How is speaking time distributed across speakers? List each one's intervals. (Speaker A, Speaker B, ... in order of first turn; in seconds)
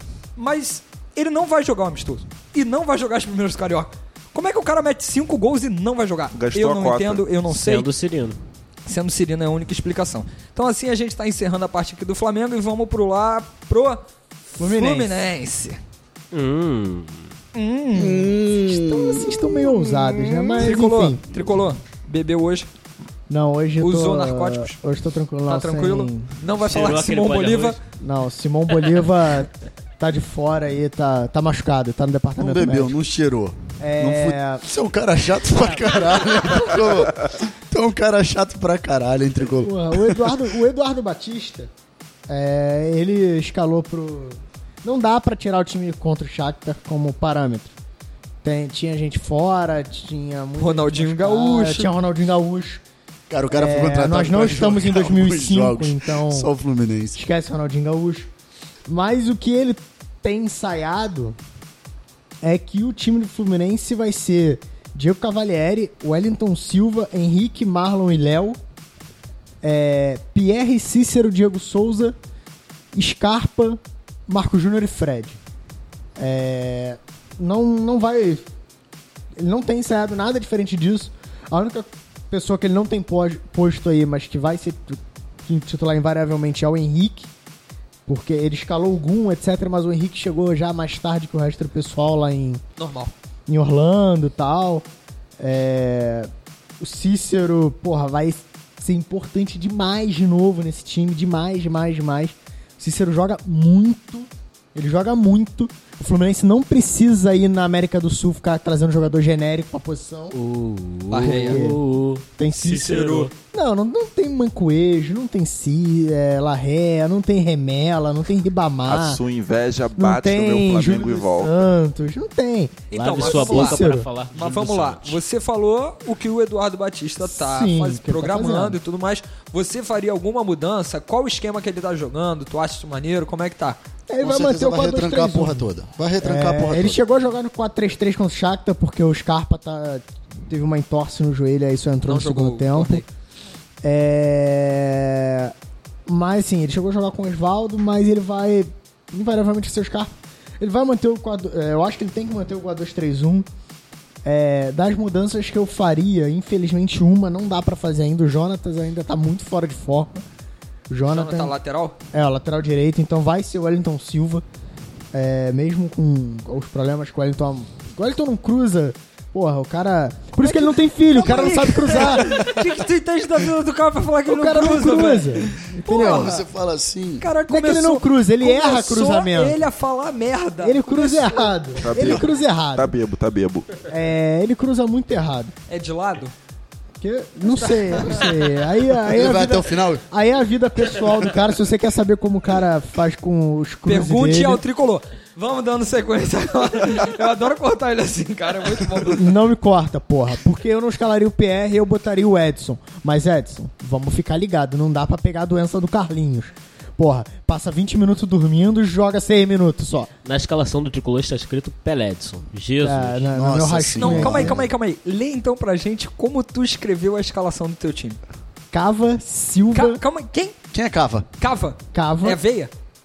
Speaker A: 0.4-7.9, 8.9-14.0, 14.6-15.8, 17.5-18.4, 20.6-22.7, 23.8-24.7, 25.5-27.8, 50.6-51.9, 92.8-93.1, 111.1-111.6, 112.5-113.3, 122.9-133.8, 142.1-143.1, 161.1-162.0, 170.4-176.4, 177.2-181.5, 185.7-186.3, 187.5-188.3, 193.9-199.3, 214.0-218.2, 219.7-220.6, 221.4-222.7
Speaker B: 6.3-7.2, 118.9-121.6, 181.8-183.7
Speaker C: 7.5-8.4, 16.3-17.3, 26.7-27.8, 110.3-113.3, 123.1-125.2, 210.2-213.3
Speaker D: 14.6-15.2, 18.5-21.2, 23.3-26.3, 28.0-32.9, 33.8-34.6, 39.6-41.7, 42.3-47.7, 48.4-52.8, 53.5-56.5, 57.1-58.3, 58.9-61.4, 62.4-68.6, 69.6-72.2, 72.9-75.4, 76.2-78.5, 79.4-87.3, 88.1-92.6, 93.5-94.9, 95.4-110.3, 111.2-111.8, 112.4-119.2, 120.0-124.1, 127.3-128.8, 134.1-135.7, 136.2-143.0, 143.8-145.5, 146.1-153.5, 154.2-160.2, 160.9-161.5, 162.1-164.4, 165.1-172.6, 174.3-176.3, 177.5-179.6, 180.6-182.9, 183.9-185.5, 187.0-194.6, 199.1-210.1, 212.8-214.6, 218.7-220.0, 221.9-222.4
Speaker E: 17.9-20.1, 32.4-40.4, 53.3-57.2, 134.2-137.0, 175.9-177.3, 189.0-190.0, 213.3-214.7, 220.7-221.3